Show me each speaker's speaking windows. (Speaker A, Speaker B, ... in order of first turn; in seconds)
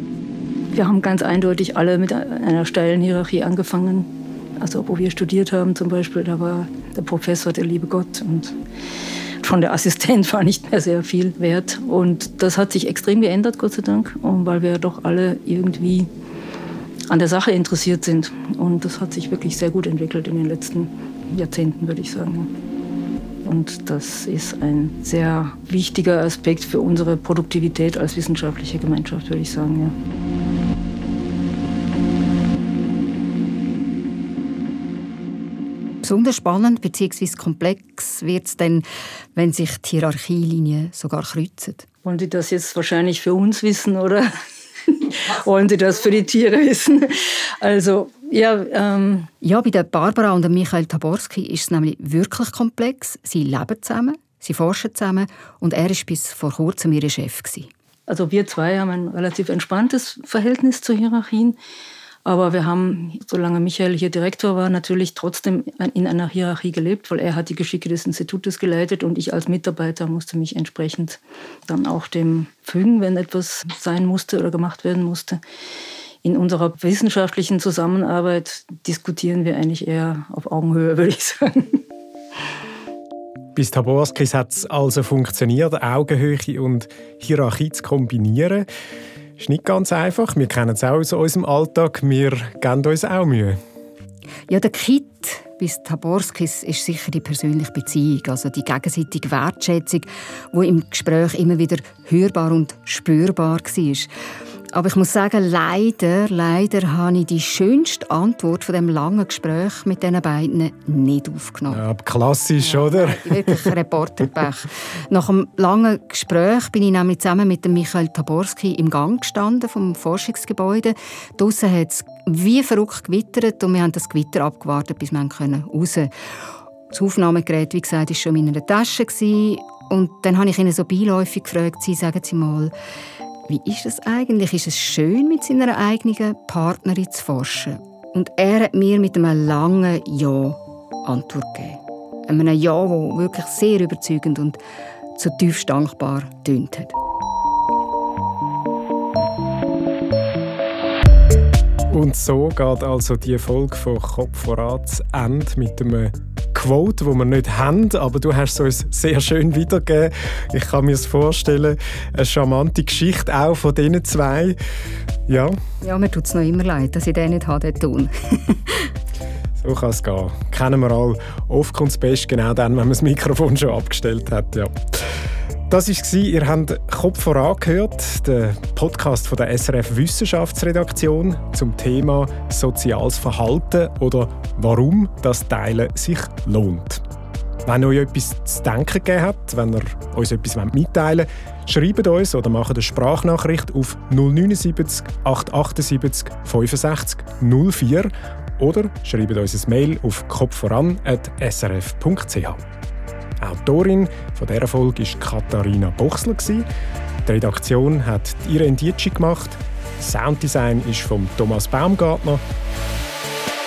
Speaker A: 0.7-8.6, 9.4-16.1, 17.1-22.5, 23.4-29.9, 42.0-49.3, 58.1-61.5, 62.2-75.4, 76.2-81.8
Speaker B: 36.0-41.9, 49.4-57.7, 94.5-104.1, 104.7-111.8, 112.6-126.1, 126.9-132.7, 133.5-144.6, 145.2-146.9, 165.8-168.9
Speaker C: 83.5-88.7, 89.4-93.6, 111.7-113.7, 151.9-164.6, 165.3-165.6, 169.6-187.0, 187.7-202.6, 203.4-206.7, 207.2-212.4